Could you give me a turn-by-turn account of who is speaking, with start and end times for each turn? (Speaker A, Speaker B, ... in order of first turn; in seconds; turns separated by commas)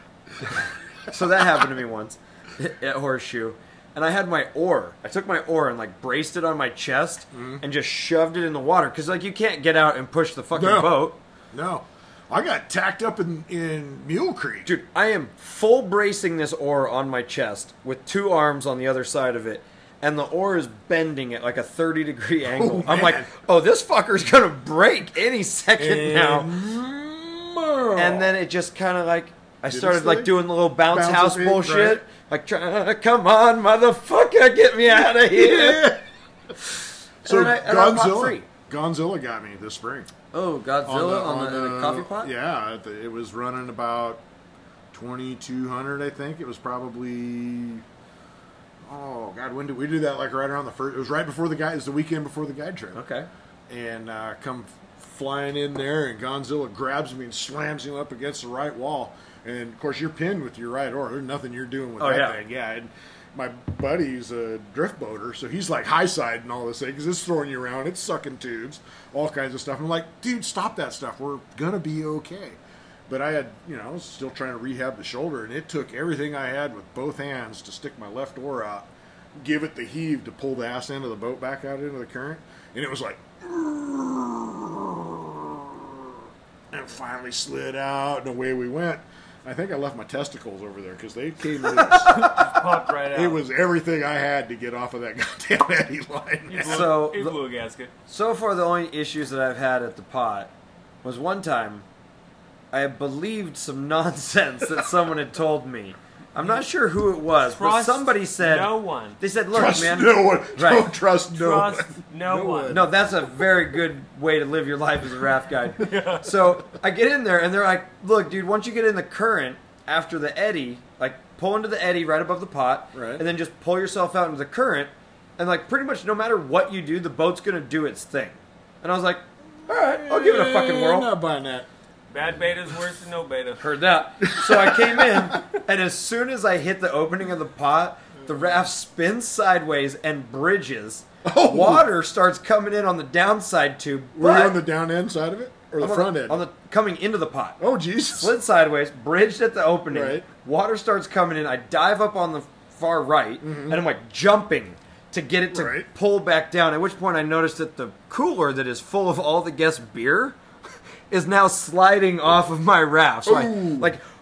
Speaker A: 0.4-0.7, Speaker B: 1.1-11.2, Speaker A: 7.3-7.6, Speaker A: 10.5-14.7, Speaker B: 14.7-26.6, Speaker A: 22.5-23.3, Speaker A: 25.8-28.4, Speaker B: 27.9-35.9, Speaker A: 29.7-32.0, Speaker A: 35.0-36.0, Speaker B: 37.2-38.5, Speaker A: 37.2-40.1, Speaker B: 40.3-42.3, Speaker A: 40.8-44.2, Speaker A: 44.9-47.8, Speaker A: 48.9-53.0, Speaker B: 52.9-53.3, Speaker A: 53.7-97.0, Speaker B: 62.0-62.4, Speaker B: 91.6-92.1, Speaker C: 91.9-93.4, Speaker C: 96.5-97.9, Speaker B: 96.6-97.4, Speaker B: 98.1-100.5, Speaker B: 101.0-101.8, Speaker B: 102.7-110.9, Speaker C: 107.4-109.2, Speaker A: 109.5-112.9, Speaker C: 111.3-112.8, Speaker B: 112.7-131.1, Speaker C: 115.8-116.3, Speaker A: 122.9-123.2, Speaker A: 129.7-131.7, Speaker C: 132.1-133.6, Speaker B: 133.6-144.6, Speaker A: 134.2-135.4, Speaker A: 141.2-141.9, Speaker A: 144.1-146.4, Speaker B: 145.8-147.6, Speaker A: 147.6-148.3, Speaker B: 148.1-160.4, Speaker A: 149.9-150.2, Speaker A: 153.4-153.8, Speaker A: 155.5-155.9, Speaker B: 161.1-164.0, Speaker A: 163.2-163.9